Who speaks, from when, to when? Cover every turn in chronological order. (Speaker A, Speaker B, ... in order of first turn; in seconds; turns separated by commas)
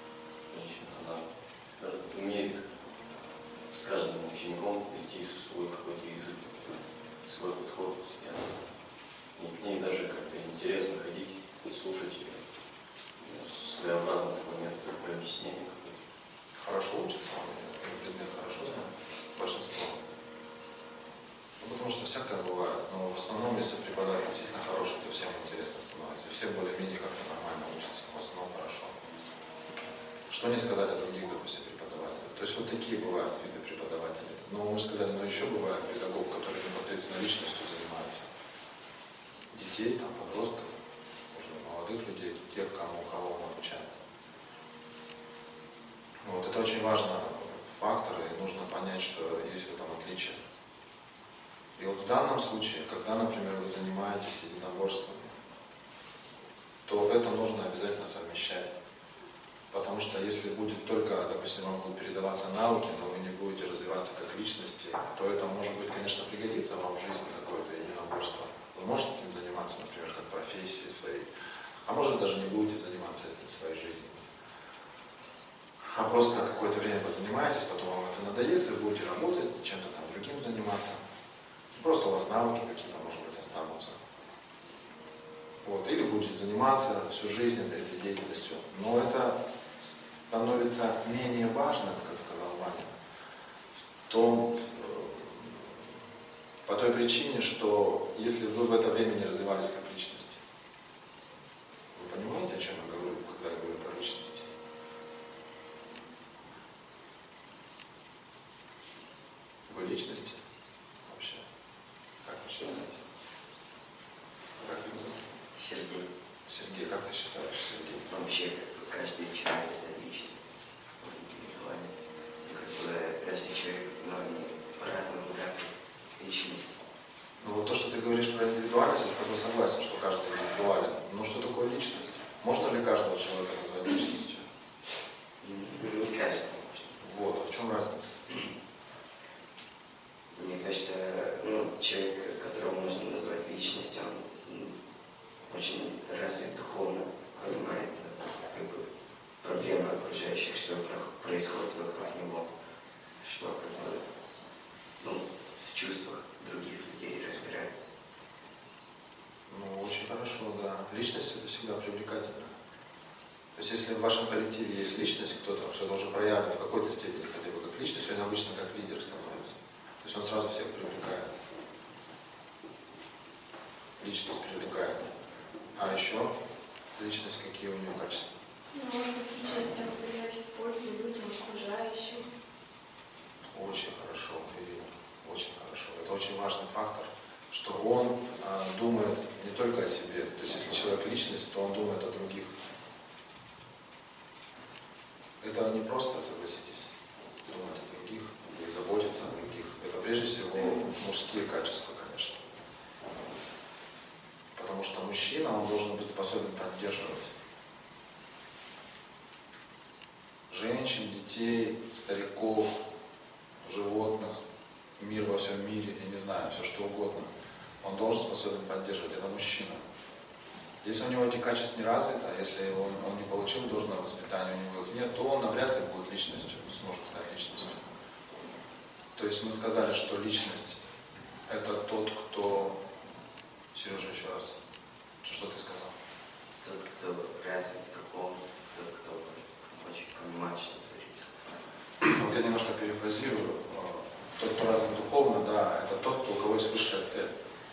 Speaker A: 0.5-2.6, Speaker A: 3.7-6.5, Speaker A: 7.3-8.7, Speaker A: 9.4-12.4, Speaker A: 13.2-16.0, Speaker B: 16.6-20.0, Speaker B: 21.6-29.1, Speaker B: 30.3-38.3, Speaker B: 39.5-40.7, Speaker B: 41.3-43.9, Speaker B: 46.2-50.4, Speaker B: 51.8-55.4, Speaker B: 56.9-58.7, Speaker B: 59.7-71.3, Speaker B: 71.9-74.2, Speaker B: 75.9-81.0, Speaker B: 81.7-84.0, Speaker B: 85.6-92.9, Speaker B: 94.1-95.8, Speaker B: 96.7-100.4, Speaker B: 101.9-104.5, Speaker B: 109.7-110.4, Speaker B: 111.0-111.5, Speaker B: 112.2-113.0, Speaker B: 114.6-115.2, Speaker C: 115.5-116.1, Speaker B: 116.5-118.1, Speaker C: 118.1-120.4, Speaker C: 121.0-121.9, Speaker C: 122.5-126.8, Speaker B: 127.4-134.4, Speaker C: 135.4-137.2, Speaker B: 137.0-138.2, Speaker C: 140.3-144.8, Speaker C: 145.5-152.5, Speaker C: 153.2-154.1, Speaker C: 155.0-157.9, Speaker B: 159.5-162.6, Speaker B: 163.6-171.3, Speaker B: 174.0-175.1, Speaker B: 175.8-176.3, Speaker B: 177.0-178.3, Speaker D: 178.7-182.3, Speaker B: 183.5-192.5, Speaker B: 195.4-196.9, Speaker B: 197.4-202.4, Speaker B: 204.6-207.3, Speaker B: 210.5-212.8, Speaker B: 213.6-214.4, Speaker B: 215.0-217.3, Speaker B: 217.8-219.8, Speaker B: 220.8-227.8, Speaker B: 229.2-230.8, Speaker B: 231.5-232.8, Speaker B: 233.7-234.6, Speaker B: 235.2-235.9, Speaker C: 236.6-241.5, Speaker B: 242.0-247.3